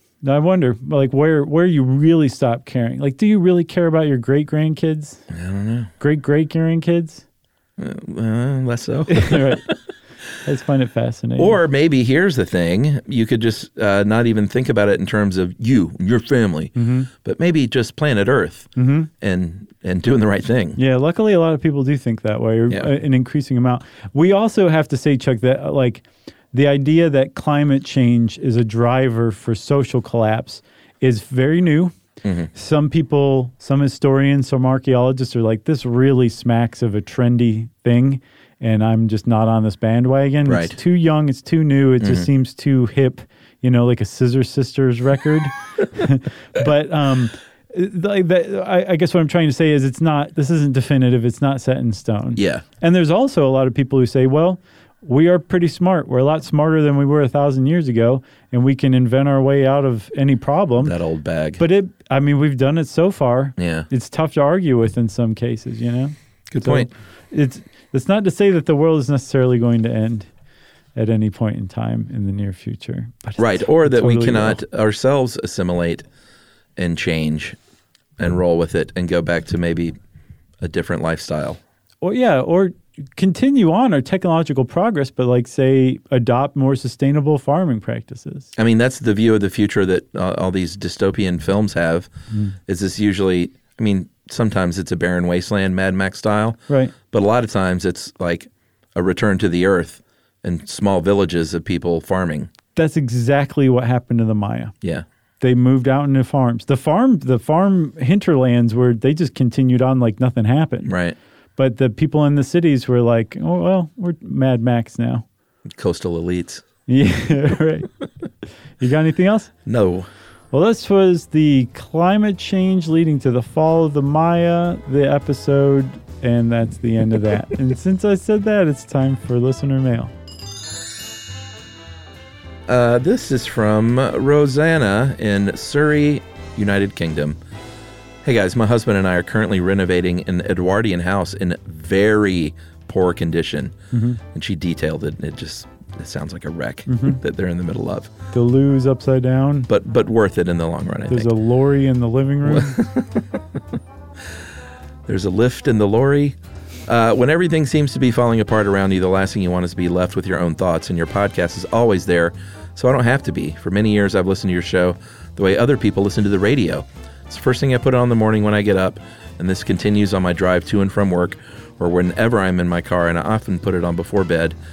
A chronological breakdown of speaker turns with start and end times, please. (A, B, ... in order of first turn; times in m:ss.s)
0:00.2-0:05.2 A
0:05.3-0:05.9 B
0:06.0-0:07.2 A
0:07.8-0:09.7 B
0:09.1-0:09.7 A
0:10.4-0:11.6 A
0:11.4-0:20.8 B
0:16.7-0:17.1 A
0:18.8-0:19.1 A
0:20.8-0:31.9 A
0:32.2-0:32.5 B
0:32.5-1:01.0 A
0:40.4-0:40.8 B
0:42.0-0:42.3 B
0:52.4-0:52.6 B
1:00.8-1:01.6 B
1:01.6-1:10.3 A
1:03.6-1:03.9 B
1:06.5-1:06.9 B
1:11.0-1:14.6 A
1:13.4-1:16.0 B
1:16.8-1:17.6 B
1:18.2-1:19.9 B
1:20.6-1:21.6 B
1:22.0-1:28.5 A
1:28.6-1:32.1 B
1:32.3-1:32.6 A
1:32.7-1:42.5 B
1:36.7-1:36.9 A
1:42.8-1:44.7 A
1:45.4-1:50.9 A
1:50.9-1:51.2 B
1:51.6-1:55.2 A
1:55.7-1:56.6 B
1:56.9-1:57.9 A
1:58.8-1:59.5 A
1:59.6-2:00.1 B
2:00.5-2:10.1 A
2:12.7-2:17.4 B
2:18.2-2:23.7 B
2:23.9-2:24.2 A
2:24.3-2:28.1 B
2:26.9-2:27.2 A
2:28.3-2:29.7 A
2:29.7-2:31.3 B
2:31.1-2:32.8 A
2:32.4-2:33.6 B
2:35.1-2:54.6 B